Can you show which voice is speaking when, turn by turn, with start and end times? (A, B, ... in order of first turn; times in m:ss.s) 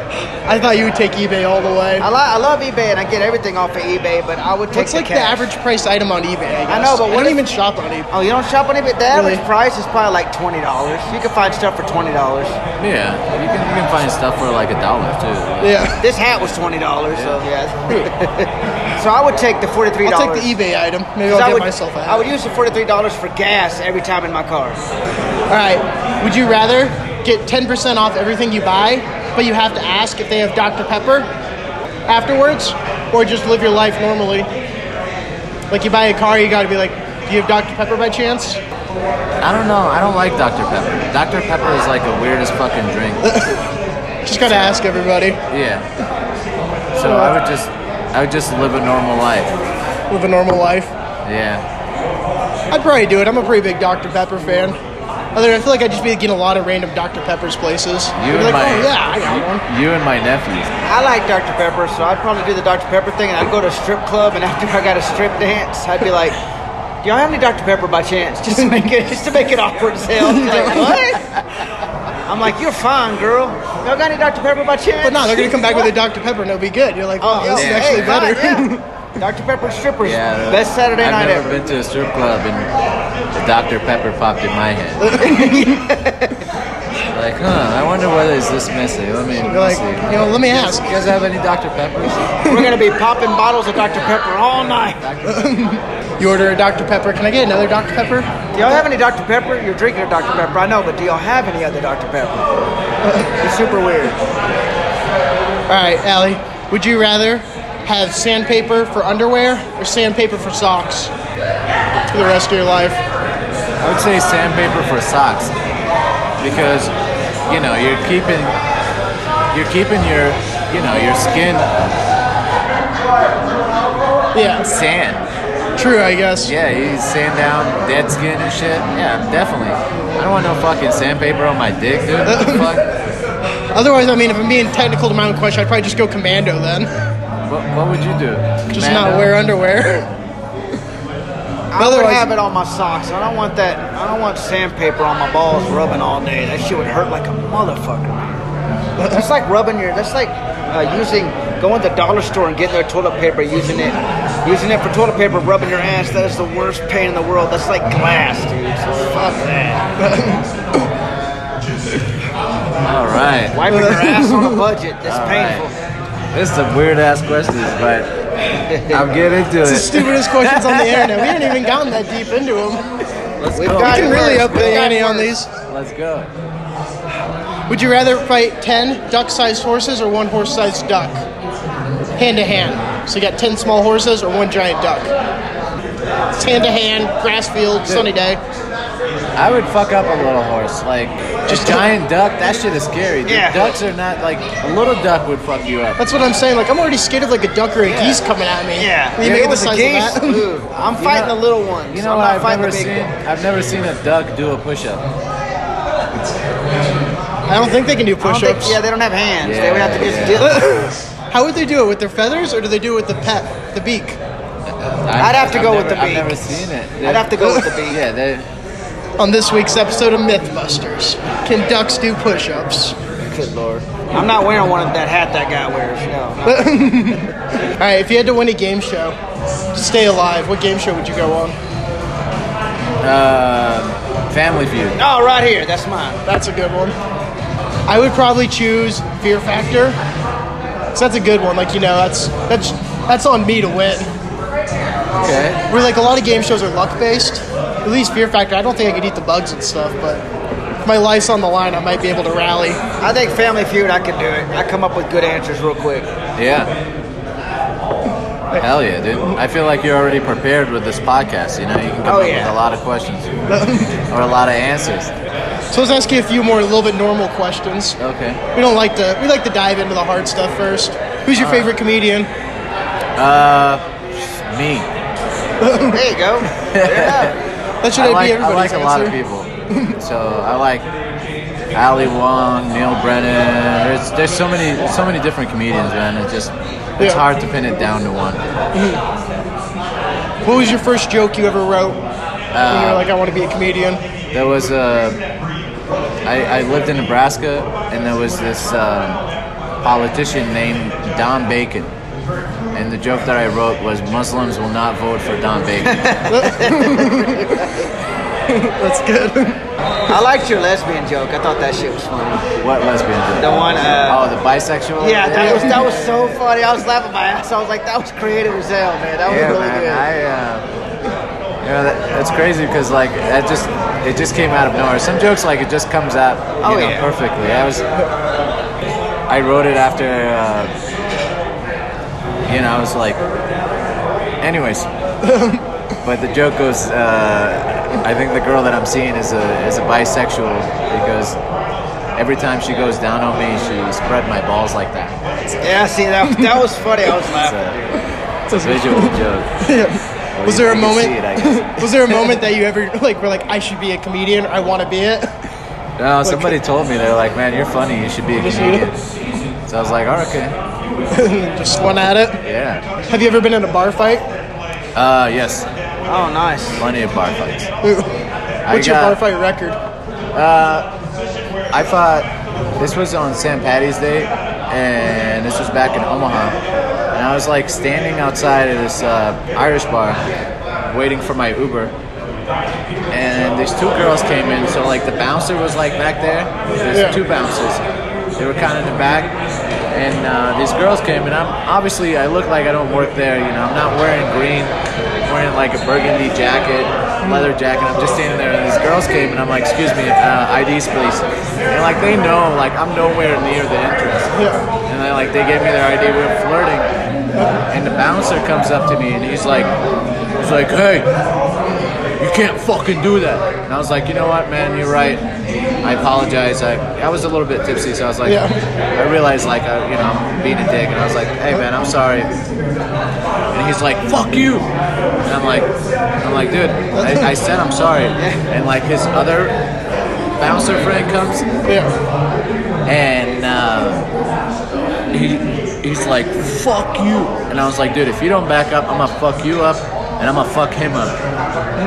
0:00.4-0:02.0 A
0:02.0-0:05.5 B
0:04.7-0:08.1 A
0:06.7-0:07.4 B
0:08.1-0:12.6 B
0:09.1-0:09.4 A
0:12.8-0:15.8 C
0:15.6-0:16.0 A
0:16.0-0:20.5 B
0:17.1-0:17.4 C
0:20.0-0:22.3 A
0:21.2-0:24.8 B
0:25.5-0:31.3 A
0:32.1-0:34.5 A
0:35.7-0:38.6 A
0:39.4-0:43.3 C
0:43.2-0:43.6 A
0:44.2-0:45.4 A
0:44.5-0:44.8 C
0:45.5-0:45.9 C
0:46.9-0:49.5 C
0:47.0-0:47.3 A
0:50.1-0:50.9 A
0:51.2-0:51.6 C
0:52.7-0:54.8 A
0:55.3-0:59.6 A
0:58.2-0:58.9 C
0:59.6-1:00.7 C
1:00.8-1:06.4 B
1:07.0-1:11.4 B
1:08.5-1:08.9 A
1:10.2-1:11.1 A
1:12.3-1:15.9 B
1:15.0-1:18.8 A
1:17.2-1:21.7 B
1:17.5-1:18.2 C
1:20.0-1:22.7 C
1:23.3-1:25.2 C
1:25.0-1:25.8 A
1:25.2-1:26.4 B
1:27.1-1:32.3 C
1:29.4-1:31.0 A
1:32.4-1:32.8 A
1:32.4-1:35.0 B
1:33.8-1:34.2 C
1:35.0-1:35.6 C
1:35.2-1:38.3 A
1:38.5-1:42.5 B
1:43.0-1:43.3 A
1:43.2-1:44.2 B
1:45.7-1:51.1 A
1:52.1-1:53.0 A
1:53.8-1:55.5 C
1:56.4-1:56.9 C
1:57.5-1:58.6 C
1:59.5-2:01.8 C
2:04.3-2:04.7 A
2:04.6-2:05.2 C
2:05.8-2:06.5 A
2:06.4-2:12.9 C
2:12.2-2:12.7 A
2:13.7-2:16.9 A
2:17.4-2:19.4 C
2:18.7-2:20.1 A
2:21.7-2:28.3 B
2:21.8-2:22.3 A
2:29.0-2:29.2 A
2:29.0-2:39.8 B
2:40.0-2:40.4 A
2:42.8-2:43.6 C
2:43.5-2:45.8 B
2:43.7-2:44.6 A
2:45.0-2:45.7 C
2:46.3-2:48.1 C
2:48.5-2:49.1 B
2:48.9-2:51.7 C
2:49.6-2:52.8 A
2:53.4-2:55.0 C
2:53.5-2:55.3 B
2:53.8-2:55.5 A
2:55.7-2:56.3 C
2:57.7-3:01.2 A
3:02.2-3:05.1 A
3:06.3-3:08.4 A
3:09.4-3:16.0 C
3:11.5-3:11.8 A
3:13.2-3:13.8 B
3:16.0-3:20.5 A
3:17.9-3:18.2 B
3:18.8-3:23.1 B
3:21.0-3:21.4 C
3:21.9-3:25.0 C
3:27.5-3:28.8 A
3:28.2-3:30.7 B
3:29.4-3:30.5 C
3:30.4-3:34.2 A
3:34.8-3:38.4 C
3:35.2-3:36.5 B
3:37.0-3:38.0 B
3:39.2-3:43.0 A
3:43.2-3:47.1 B
3:46.4-3:49.2 A
3:49.7-3:51.6 A
3:53.0-3:55.0 C
3:55.0-3:56.2 B
3:56.2-3:57.0 A
3:57.9-4:00.0 A
4:00.9-4:04.1 A
4:05.2-4:05.6 C
4:05.7-4:10.2 A
4:10.8-4:12.8 A
4:13.0-4:16.1 B
4:16.4-4:16.7 C
4:18.6-4:23.3 C
4:22.0-4:22.5 B
4:23.5-4:23.9 A
4:24.1-4:25.1 C
4:25.7-4:28.0 A
4:28.0-4:28.4 C
4:28.5-4:32.3 A
4:31.3-4:31.7 C
4:33.2-4:34.9 C
4:35.6-4:36.0 A
4:35.8-4:37.4 B
4:36.7-4:37.3 C
4:37.8-4:39.2 A
4:37.9-4:40.9 C
4:39.7-4:40.0 A
4:41.7-4:48.5 C
4:48.7-4:49.0 A
4:50.4-4:52.0 A
4:52.5-4:53.1 C
4:52.7-4:54.0 A
4:54.3-4:55.2 C
4:56.2-4:59.2 C
4:59.8-5:01.9 C
5:02.7-5:06.2 C
5:05.8-5:07.4 B
5:06.3-5:07.8 A
5:08.5-5:09.6 A
5:10.1-5:12.4 B
5:12.6-5:16.3 C
5:13.4-5:14.3 B
5:15.0-5:20.0 B
5:15.4-5:15.8 A
5:19.2-5:20.6 C
5:21.6-5:27.8 C
5:26.6-5:27.1 B
5:29.3-5:30.7 C
5:32.5-5:33.2 C
5:34.4-5:34.9 C
5:35.2-5:35.6 A
5:36.0-5:41.4 C
5:42.2-5:45.2 C
5:45.6-5:48.0 B
5:47.4-5:47.8 C
5:48.5-5:49.5 C
5:48.5-5:55.3 A
5:50.4-5:52.4 C
5:56.0-5:59.0 C
5:56.2-5:56.6 A
5:58.4-5:58.9 A
5:59.6-6:00.6 C
6:01.1-6:02.4 A
6:02.4-6:02.8 C
6:03.1-6:04.2 A
6:04.9-6:05.7 C
6:06.1-6:06.8 B
6:06.8-6:07.7 C
6:07.8-6:08.1 A
6:08.6-6:09.2 C
6:08.7-6:09.8 A
6:10.3-6:10.9 C
6:11.7-6:16.6 C
6:17.1-6:20.2 C
6:20.8-6:21.9 C
6:23.1-6:27.8 C
6:26.9-6:27.2 A
6:28.4-6:29.3 C
6:29.9-6:44.3 C
6:37.2-6:37.5 A
6:44.3-6:44.6 A
6:44.9-6:46.9 C
6:47.7-6:49.7 C
6:50.4-6:51.1 C
6:52.2-6:55.3 C
6:55.8-6:58.4 C
6:58.2-6:58.6 A
6:59.0-7:02.3 C
7:03.5-7:04.7 C
7:05.2-7:05.7 C
7:06.2-7:09.6 C
7:06.9-7:07.3 A
7:10.4-7:11.4 C
7:11.6-7:11.9 A
7:12.8-7:14.0 C
7:15.1-7:21.2 C